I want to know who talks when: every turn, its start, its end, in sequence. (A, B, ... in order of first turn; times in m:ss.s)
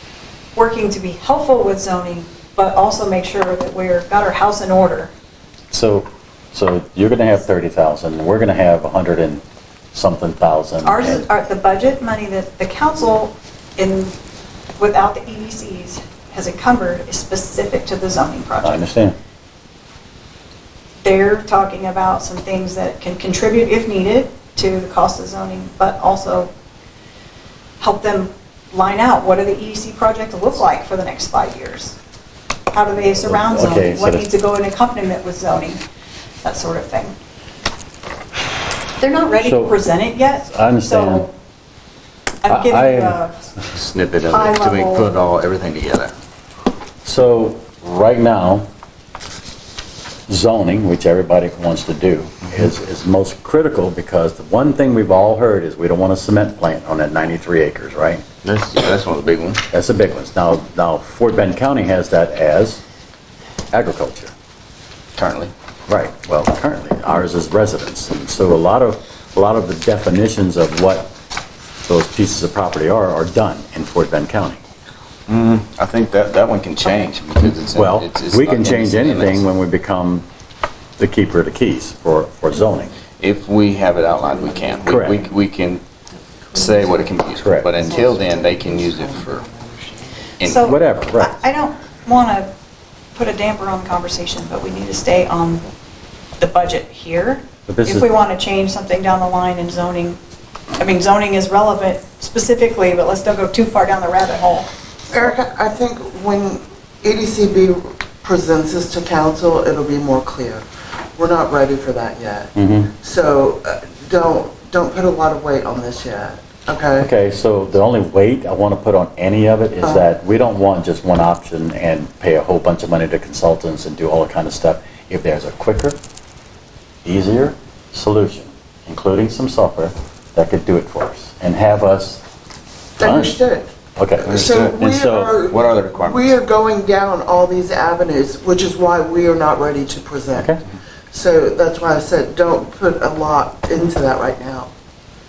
0:00.6-0:05.1 A
0:05.7-0:09.4 B
0:09.9-0:11.3 B
0:10.8-0:14.2 A
0:14.8-0:18.9 A
0:18.6-0:19.2 B
0:21.0-0:26.5 A
0:27.8-0:32.0 A
0:32.7-0:35.8 A
0:33.2-0:34.3 B
0:36.4-0:37.2 A
0:39.0-0:41.3 A
0:39.4-0:39.8 B
0:40.4-0:41.3 B
0:42.4-0:43.5 A
0:42.4-0:43.2 B
0:43.7-0:46.2 C
0:44.3-0:45.2 A
0:47.0-0:48.7 B
0:50.3-0:58.2 B
0:58.4-0:59.6 C
0:59.7-1:02.8 B
1:03.7-1:04.3 B
1:05.2-1:05.5 C
1:05.9-1:11.1 B
1:11.9-1:14.6 B
1:15.3-1:19.5 C
1:17.7-1:20.2 B
1:21.0-1:23.0 B
1:23.2-1:25.8 C
1:24.9-1:25.2 B
1:26.5-1:29.4 C
1:27.4-1:27.9 B
1:27.7-1:30.3 D
1:30.4-1:30.8 C
1:30.4-1:32.5 A
1:30.5-1:31.4 B
1:33.2-1:35.6 A
1:36.4-1:40.2 A
1:37.7-1:38.1 B
1:40.8-1:44.7 A
1:45.1-1:50.6 D
1:51.2-1:57.1 D
1:52.6-1:52.9 B
1:57.0-2:06.0 B
2:07.0-2:12.2 B
2:13.0-2:13.4 B
2:13.0-2:13.7 D
2:14.0-2:15.4 B
2:14.2-2:20.5 D
2:14.2-2:14.8 C
2:15.5-2:16.4 C
2:21.1-2:24.7 D